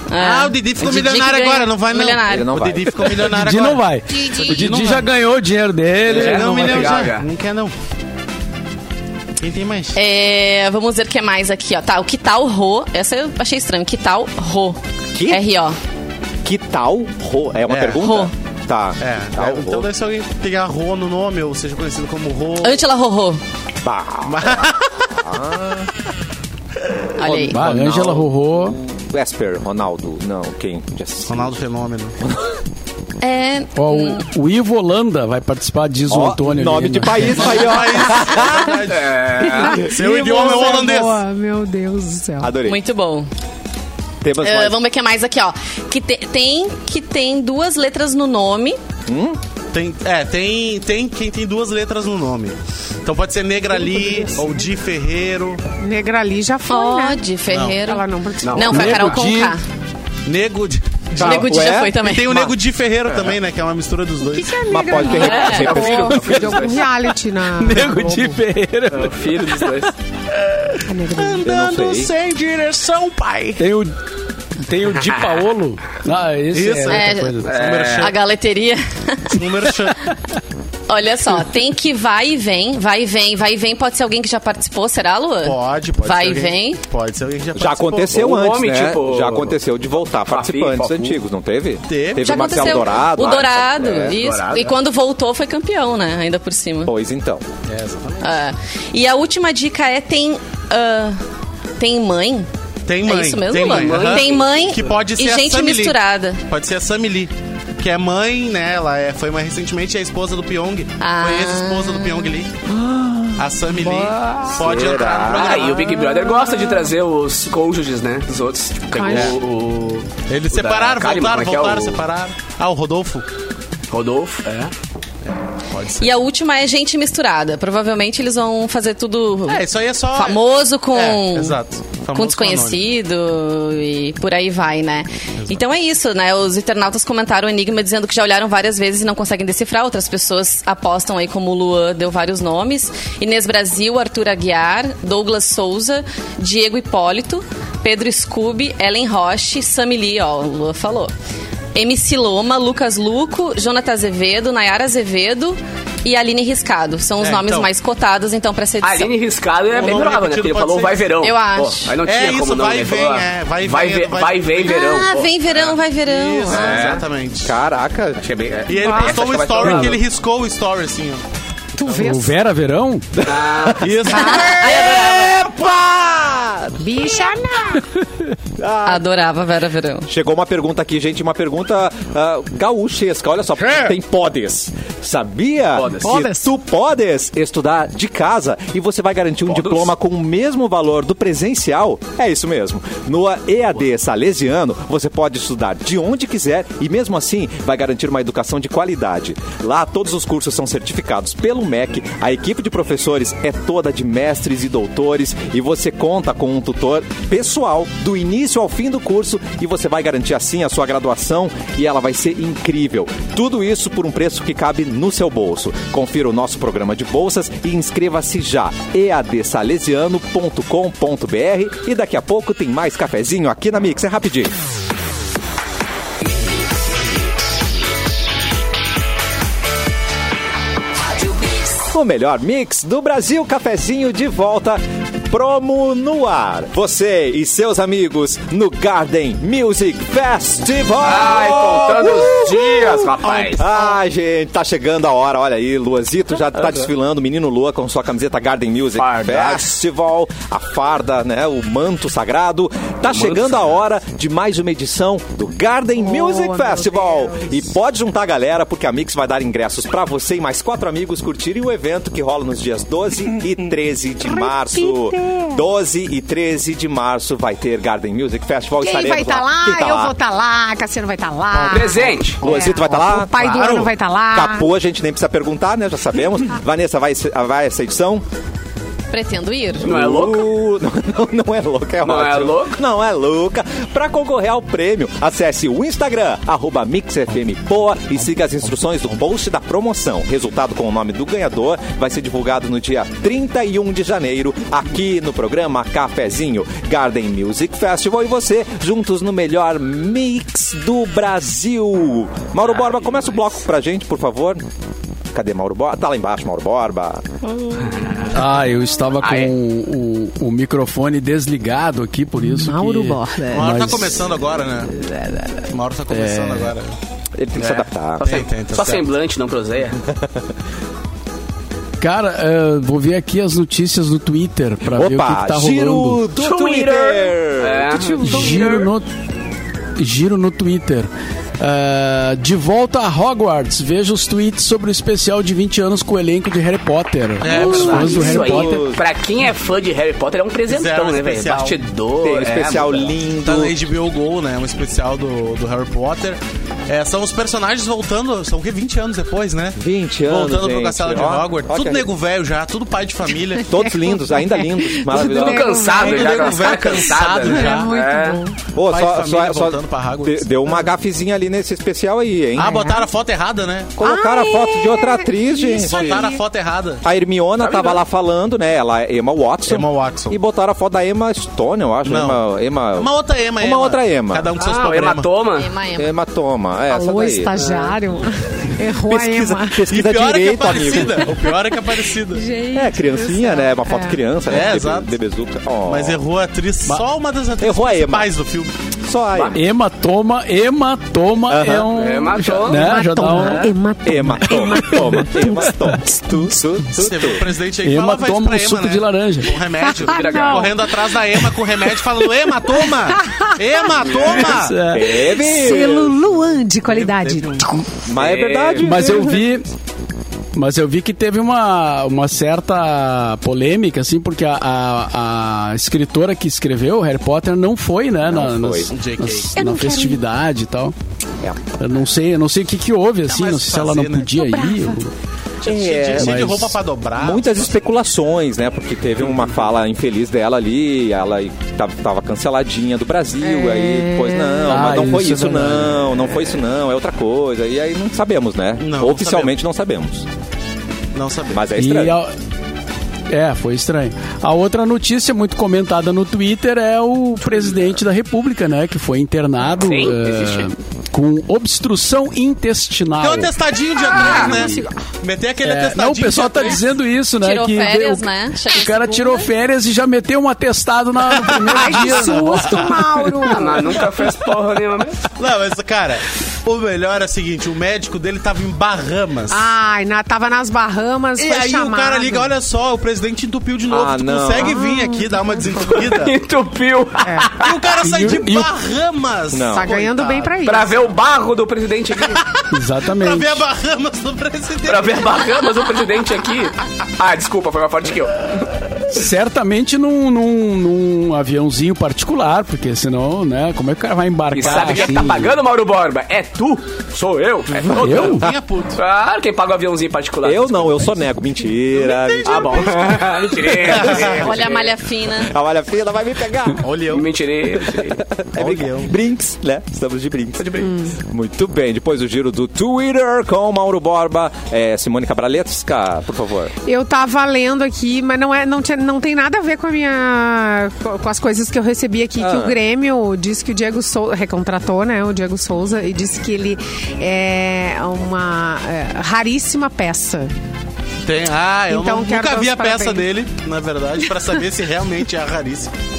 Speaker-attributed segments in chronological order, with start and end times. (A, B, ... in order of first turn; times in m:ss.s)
0:00.1-0:02.5 A
0:00.2-0:05.1 B
0:02.2-0:03.0 C
0:03.1-0:06.8 D
0:06.0-0:07.7 B
0:06.1-0:07.3 E
0:09.4-0:10.0 B
0:09.9-0:15.8 A
0:15.1-0:15.4 C
0:16.4-0:19.9 C
0:17.7-0:18.0 B
0:18.0-0:18.3 A
0:19.0-0:22.8 B
0:22.6-0:23.4 A
0:23.8-0:25.9 C
0:24.2-0:25.1 B
0:27.2-0:27.6 A
0:27.2-0:31.5 C
0:27.4-0:28.8 D
0:31.3-0:32.1 B
0:32.2-0:32.5 C
0:33.2-0:34.2 A
0:33.7-0:37.6 D
0:36.1-0:38.8 C
0:37.2-0:41.2 B
0:38.9-0:39.9 E
0:39.4-0:42.6 F
0:42.4-0:42.8 C
0:42.6-0:43.3 A
0:44.2-0:44.8 C
0:44.4-0:48.8 A
0:49.1-0:49.4 C
0:49.7-0:55.6 B
0:53.8-0:54.5 F
0:55.8-0:57.2 F
0:56.7-0:59.6 A
0:57.5-0:57.9 B
0:57.8-0:59.2 F
0:58.4-0:58.8 E
0:58.6-0:59.6 D
1:00.2-1:04.6 B
1:01.2-1:02.4 A
1:01.2-1:02.0 C
1:04.3-1:08.4 F
1:04.7-1:06.5 C
1:05.1-1:05.8 A
1:05.2-1:06.9 E
1:07.5-1:09.7 D
1:08.9-1:09.9 E
1:10.8-1:11.5 F
1:11.1-1:13.6 B
1:11.4-1:12.1 C
1:13.6-1:13.9 D
1:14.6-1:17.5 D
1:16.5-1:18.2 B
1:16.9-1:17.4 A
1:17.4-1:18.1 E
1:18.0-1:19.4 A
1:19.3-1:20.1 B
1:20.9-1:26.8 A
1:25.4-1:28.3 B
1:27.5-1:34.2 C
1:28.1-1:29.6 E
1:30.3-1:31.2 E
1:31.9-1:32.8 B
1:32.2-1:36.9 A
1:34.0-1:34.8 E
1:36.8-1:37.4 C
1:37.7-1:38.3 B
1:38.2-1:41.2 A
1:41.8-1:42.5 A
1:42.8-1:52.6 B
1:43.0-1:46.4 A
1:43.5-1:44.9 E
1:51.0-1:52.3 A
1:52.7-1:55.8 C
1:53.4-1:56.0 B
1:55.2-2:02.0 E
1:59.0-1:59.3 F
1:59.1-1:59.4 B
2:00.3-2:03.3 B
2:03.9-2:04.7 E
2:05.7-2:06.2 B
2:06.0-2:11.6 A
2:09.5-2:12.8 B
2:12.1-2:31.1 A
2:31.7-2:39.1 A
2:37.2-2:37.7 B
2:38.8-2:45.7 E
2:39.7-2:41.1 B
2:41.2-2:42.0 A
2:42.0-2:44.8 B
2:44.6-2:47.0 A
2:45.5-2:47.5 B
2:46.5-2:47.0 E
2:47.4-2:48.2 C
2:48.2-2:50.0 E
2:48.6-2:51.2 B
2:48.8-2:49.2 F
2:51.8-2:52.3 F
2:51.8-2:52.1 B
2:51.9-2:53.1 D
2:53.2-2:53.8 C
2:53.2-2:54.1 E
2:53.7-2:54.8 B
2:54.1-2:55.4 A
2:54.4-2:57.2 C
2:56.8-2:57.9 F
2:58.6-2:59.0 C
2:58.8-3:00.1 A
3:00.1-3:44.5 C
3:05.7-3:06.3 E
3:06.0-3:06.5 F
3:09.5-3:09.9 E
3:51.8-4:30.1 C
4:01.0-4:03.6 E
4:09.0-4:09.8 E
4:13.1-4:13.7 E
4:16.0-4:17.6 F
4:24.2-4:25.6 F
4:28.8-4:34.7 F
4:31.6-4:32.4 E
4:32.4-4:33.6 C
4:33.4-4:33.9 B
4:34.3-4:38.2 C
4:39.1-4:39.9 A
4:39.8-4:40.5 E
4:39.8-5:04.6 C
4:42.0-4:42.8 E
5:02.6-5:03.3 E
5:05.3-5:07.3 C
5:07.8-5:08.3 E
5:08.3-5:14.3 D
5:09.2-5:09.5 E
5:12.5-5:13.9 F
5:13.5-5:14.9 B
5:14.9-5:15.6 F
5:15.7-5:17.0 B
5:16.1-5:16.7 D
5:17.4-5:18.3 C
5:17.6-5:20.0 E
5:18.2-5:19.1 B
5:20.1-5:20.4 C
5:22.0-5:26.2 D
5:24.8-5:28.2 C
5:26.4-5:28.9 E
5:28.1-5:28.7 F
5:28.2-5:29.1 D
5:30.0-5:38.8 D
5:37.4-5:38.3 B
5:37.5-5:43.1 E
5:37.7-5:39.0 C
5:40.7-5:41.8 B
5:42.2-5:43.8 C
5:43.4-5:53.7 B
5:49.8-5:52.1 C
5:53.6-5:55.9 C
5:53.8-5:58.6 F
5:55.0-5:58.4 E
5:55.9-5:58.0 B
5:58.7-6:02.8 C
5:58.8-6:00.5 B
6:02.6-6:03.1 F
6:02.6-6:04.0 B
6:04.0-6:06.3 C
6:04.0-6:06.4 F
6:05.8-6:07.0 B
6:07.0-6:14.5 C
6:07.6-6:08.0 E
6:09.7-6:10.4 B
6:12.0-6:12.4 B
6:12.9-6:15.4 B
6:14.6-6:15.7 E
6:15.5-6:16.1 A
6:16.0-6:17.5 C
6:16.9-6:19.9 F
6:17.6-6:18.0 E
6:18.9-6:21.3 C
6:19.9-6:22.4 B
6:22.3-6:24.2 F
6:22.7-6:26.2 C
6:24.5-6:25.1 B
6:25.8-6:28.7 B
6:27.6-6:28.3 C
6:29.0-6:29.6 C
6:29.5-6:33.7 D
6:31.5-6:31.9 C
6:31.9-6:33.6 E
6:32.7-6:35.7 F
6:34.0-6:37.5 C
6:36.9-6:44.8 B
6:37.8-6:39.6 D
6:39.8-6:42.0 F
6:40.0-6:40.9 E
6:42.6-6:43.9 F
6:44.4-6:45.2 D
6:44.8-6:46.2 C
6:45.0-6:47.7 F
6:46.8-6:47.7 B
6:48.0-6:49.4 C
6:48.2-6:49.0 E
6:48.8-6:49.7 D
6:50.5-7:00.9 D
6:58.2-6:58.9 C
6:58.9-6:59.6 B
6:59.6-7:00.2 F
7:01.8-7:05.1 D
7:03.2-7:04.4 B
7:04.4-7:05.0 F
7:05.6-7:07.7 B
7:05.6-7:06.5 C
7:06.2-7:06.8 D
7:07.2-7:20.3 C
7:13.4-7:15.0 F
7:14.7-7:16.1 D
7:18.8-7:19.6 B
7:21.1-7:21.7 B
7:21.5-7:22.2 C
7:21.8-7:22.3 D
7:23.3-7:33.5 D
7:29.8-7:30.7 E
7:33.2-7:36.9 B
7:34.1-7:34.9 F
7:34.2-7:34.5 E
7:34.3-7:34.8 D
7:35.6-7:43.0 D
7:37.4-7:39.5 A
7:41.4-7:43.0 B
7:41.6-7:44.0 F
7:43.4-7:45.3 E
7:45.3-7:49.7 B
7:49.5-7:52.5 F
7:51.4-7:56.4 B
7:53.9-7:54.8 C
7:54.6-7:56.0 F
7:55.9-7:57.9 E
7:57.2-7:57.6 F
7:57.6-8:00.6 B
7:58.0-7:58.7 D
7:59.5-8:00.0 C
7:59.7-8:01.0 F
8:00.6-8:02.4 E
8:02.3-8:05.4 B
8:02.7-8:03.6 D
8:04.8-8:08.5 E
8:09.1-8:15.5 D
8:14.5-8:21.1 E
8:14.7-8:15.1 B
8:17.7-8:19.0 B
8:18.0-8:18.4 D
8:20.4-8:23.1 C
8:21.9-8:24.5 B
8:22.4-8:24.9 E
8:23.8-8:24.1 C
8:24.3-8:25.5 A
8:25.3-8:26.8 C
8:26.8-8:27.3 B
8:27.1-8:28.2 E
8:28.0-8:36.7 C
8:28.5-8:29.1 B
8:30.6-8:30.9 E
8:30.8-8:31.1 F
8:36.8-8:50.5 F
8:42.4-8:42.8 C
8:51.2-8:55.9 B
8:51.9-8:53.3 F